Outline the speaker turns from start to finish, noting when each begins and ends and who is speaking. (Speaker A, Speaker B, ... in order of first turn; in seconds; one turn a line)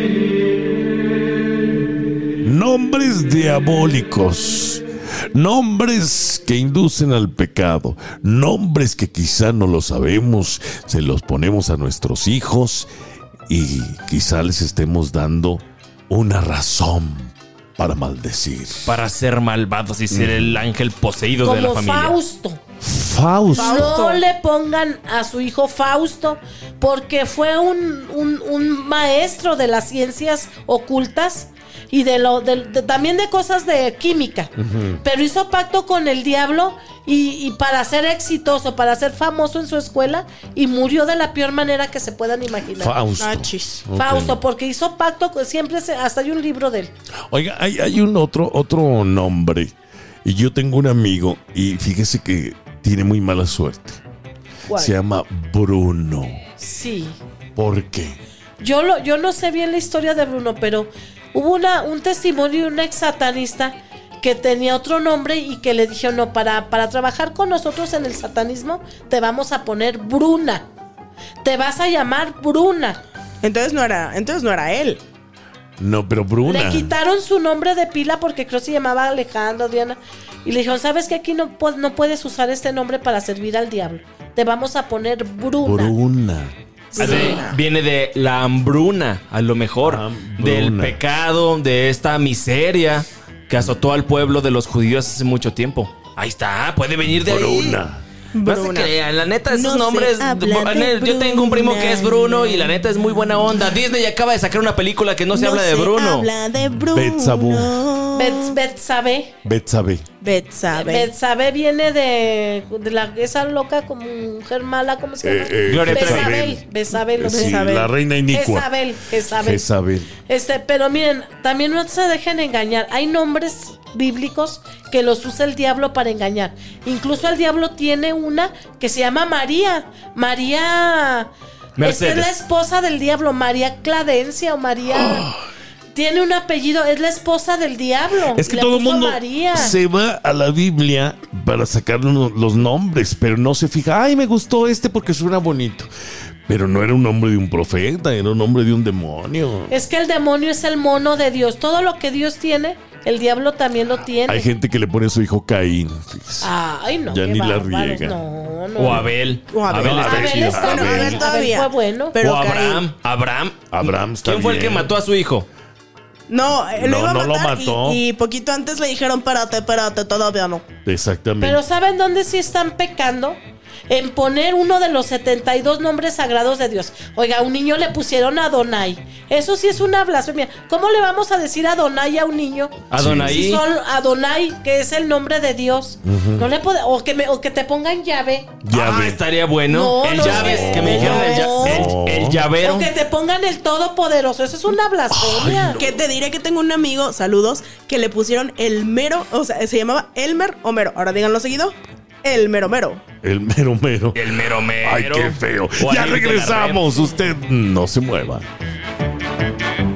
Speaker A: 2.4-12.9
Speaker A: 13.5-18.9
Speaker B: 18.8-22.2
Speaker A: 20.1-20.6
Speaker C: 21.4-22.6
Speaker A: 22.8-24.0
Speaker C: 23.5-34.5
Speaker D: 23.6-24.2
Speaker A: 34.6-35.0
Speaker C: 35.0-43.0
Speaker A: 42.7-44.4
Speaker D: 43.2-43.8
Speaker C: 43.9-46.9
Speaker A: 47.3-49.7
Speaker A: 50.2-54.0
Speaker C: 54.7-55.0
Speaker A: 54.7-56.4
Speaker C: 56.6-57.2
Speaker A: 57.5-58.2
Speaker C: 58.6-70.7
Speaker C: 71.4-73.0
Speaker D: 73.4-75.0
Speaker A: 75.8-76.9
Speaker C: 76.4-85.9
Speaker A: 85.6-86.5
Speaker D: 86.9-87.6
Speaker B: 86.9-97.8
Speaker C: 87.0-87.3
Speaker A: 89.8-91.0
Speaker A: 97.1-98.0
Speaker D: 98.3-98.9
Speaker B: 98.4-106.3
Speaker D: 99.5-102.7
Speaker D: 105.3-108.5
Speaker A: 106.9-107.8
Speaker C: 108.1-109.3
Speaker A: 109.4-110.0
Speaker D: 110.2-111.1
Speaker C: 110.7-117.7
Speaker A: 115.2-116.6
Speaker B: 115.7-116.3
Speaker A: 117.2-118.7
Speaker D: 117.3-117.9
Speaker C: 118.3-119.7
Speaker A: 119.3-120.1
Speaker C: 120.2-131.3
Speaker B: 131.8-132.3
Speaker C: 131.8-135.3
Speaker A: 134.9-135.3
Speaker C: 135.9-139.8
Speaker A: 138.3-145.9
Speaker A: 146.5-149.7
Speaker C: 149.7-154.5
Speaker A: 154.2-156.5
Speaker C: 156.4-159.1
Speaker A: 157.1-158.2
Speaker B: 158.8-160.7
Speaker D: 159.5-162.9
Speaker A: 159.7-161.2
Speaker C: 159.9-162.2
Speaker B: 162.2-165.5
Speaker A: 163.7-164.9
Speaker D: 166.3-170.6
Speaker A: 166.8-168.0
Speaker A: 170.8-171.6
Speaker C: 171.4-188.5
Speaker B: 182.9-183.6
Speaker A: 182.9-183.4
Speaker A: 186.0-186.5
Speaker A: 188.6-189.2
Speaker B: 188.7-192.9
Speaker C: 189.7-191.8
Speaker A: 190.1-192.4
Speaker D: 190.7-191.9
Speaker C: 192.6-195.8
Speaker A: 195.1-196.0
Speaker D: 195.7-203.0
Speaker A: 203.2-208.5
Speaker B: 204.1-206.8